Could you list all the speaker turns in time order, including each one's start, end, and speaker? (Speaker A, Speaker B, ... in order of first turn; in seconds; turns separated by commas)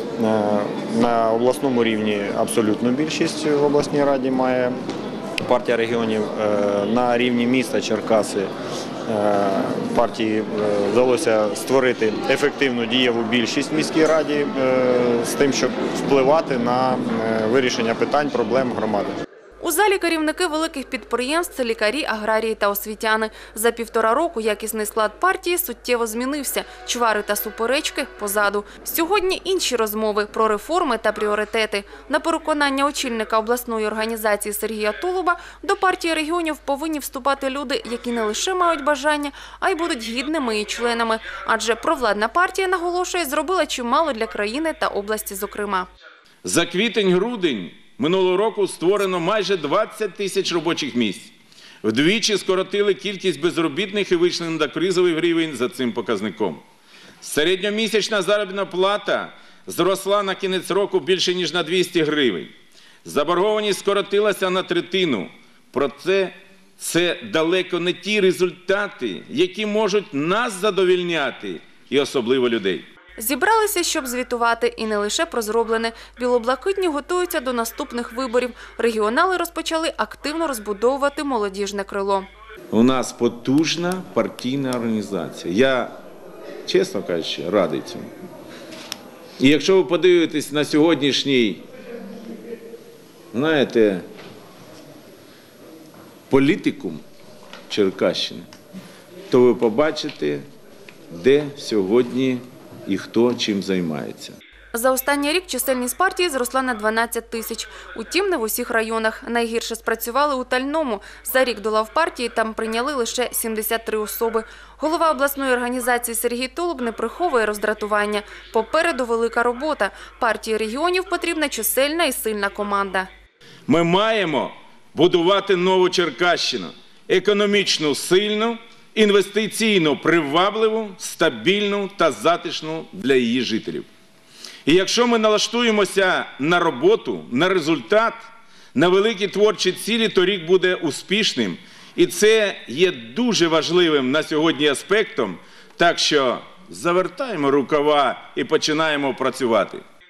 Speaker A: 0.2-4.7, Speaker A: 5.4-8.5, Speaker A: 9.1-19.1, Speaker B: 19.6-45.9, Speaker C: 46.4-51.3, Speaker C: 51.8-56.6, Speaker C: 57.2-62.5, Speaker C: 63.0-72.8, Speaker B: 73.2-82.3, Speaker C: 82.7-86.0, Speaker C: 86.7-88.1, Speaker C: 89.4-91.6, Speaker C: 93.3-94.0, Speaker C: 96.3-97.0, Speaker C: 97.7-98.5, Speaker C: 99.3-100.4, Speaker C: 101.1-104.4, Speaker B: 104.7-123.1, Speaker C: 123.7-133.9, Speaker C: 134.7-138.2, Speaker C: 138.7-149.8